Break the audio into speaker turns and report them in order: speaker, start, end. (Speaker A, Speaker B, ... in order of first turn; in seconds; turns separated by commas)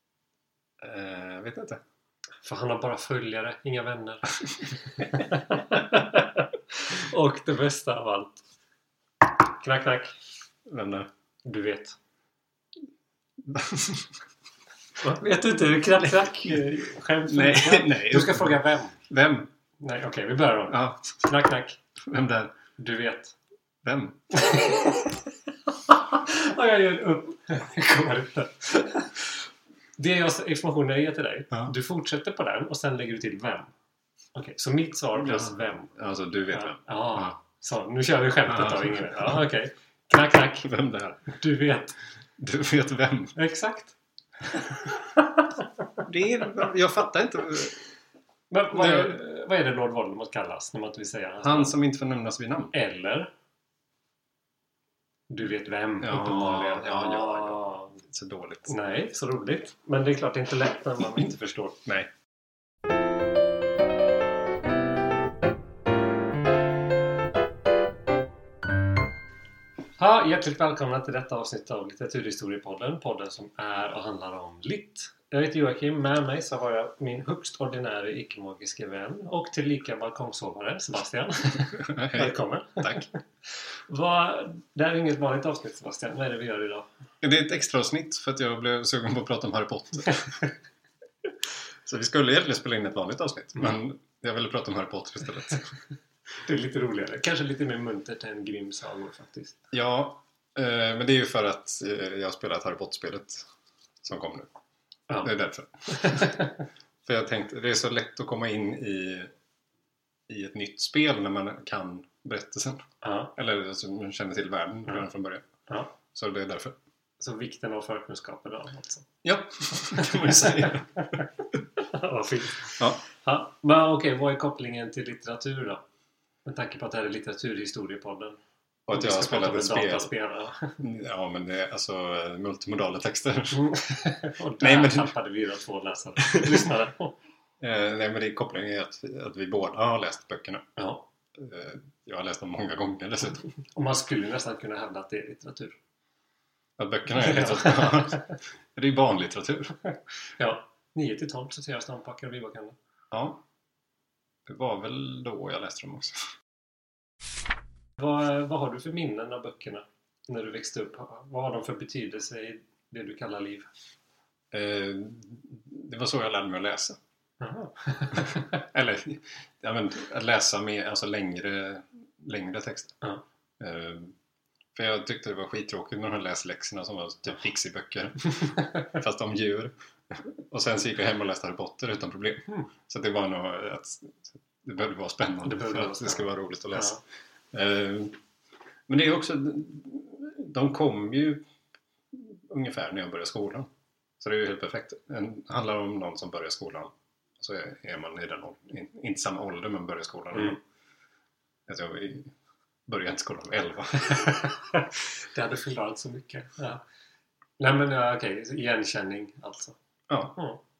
Speaker A: 0.8-1.8, Speaker B: 2.4-8.4, Speaker B: 9.2-10.2, Speaker A: 10.7-11.1, Speaker B: 11.4-12.0, Speaker A: 13.4-14.1, Speaker B: 15.0-19.0, Speaker A: 16.2-16.6, Speaker A: 17.2-19.5, Speaker B: 19.8-21.8, Speaker A: 20.7-21.3, Speaker A: 22.0-22.6, Speaker B: 22.8-23.4, Speaker A: 23.8-24.2, Speaker B: 24.3-25.2, Speaker B: 25.9-29.4, Speaker B: 30.0-33.7, Speaker B: 34.4-35.9, Speaker A: 35.2-37.4, Speaker B: 36.5-40.7, Speaker A: 38.5-39.4, Speaker A: 40.6-41.3, Speaker B: 41.3-42.0, Speaker A: 42.4-43.4, Speaker B: 43.4-44.0, Speaker A: 46.0-47.8, Speaker B: 48.5-51.7, Speaker A: 48.7-49.2, Speaker A: 51.4-52.7, Speaker B: 52.7-53.3, Speaker B: 55.3-58.0, Speaker A: 56.0-58.8, Speaker B: 58.7-61.8, Speaker A: 61.9-62.1, Speaker B: 70.0-83.2, Speaker A: 81.7-83.1, Speaker B: 83.9-86.9, Speaker A: 87.2-90.5, Speaker A: 91.9-95.7, Speaker B: 96.4-99.6, Speaker A: 99.7-103.5, Speaker A: 104.0-104.5, Speaker A: 105.2-106.5, Speaker B: 105.9-106.6, Speaker A: 107.0-109.3, Speaker A: 110.3-115.5, Speaker B: 113.0-113.3, Speaker B: 115.7-115.9, Speaker A: 116.1-116.8, Speaker B: 117.2-119.1, Speaker A: 119.2-121.2, Speaker B: 119.8-125.8, Speaker B: 126.5-128.4, Speaker A: 128.9-130.1, Speaker B: 128.9-130.8, Speaker A: 130.8-133.8, Speaker B: 133.5-137.2, Speaker A: 134.6-135.2, Speaker A: 136.3-136.7, Speaker A: 137.6-140.7, Speaker B: 140.8-141.1, Speaker A: 141.3-143.5, Speaker B: 143.6-145.8, Speaker A: 146.8-149.8, Speaker B: 147.1-148.3, Speaker B: 150.4-152.8, Speaker A: 153.1-153.4, Speaker A: 154.5-156.3, Speaker B: 158.0-163.7, Speaker A: 164.5-167.0, Speaker B: 167.4-168.5, Speaker A: 168.1-172.9, Speaker A: 173.6-174.1, Speaker A: 174.8-187.0, Speaker B: 185.4-187.0, Speaker A: 187.5-188.2, Speaker A: 188.9-191.4, Speaker A: 192.1-193.7, Speaker A: 194.2-200.6, Speaker B: 200.3-200.6, Speaker A: 201.7-202.3, Speaker A: 202.9-204.6, Speaker B: 204.2-206.8, Speaker B: 207.6-209.8, Speaker A: 210.1-210.4, Speaker B: 210.3-210.6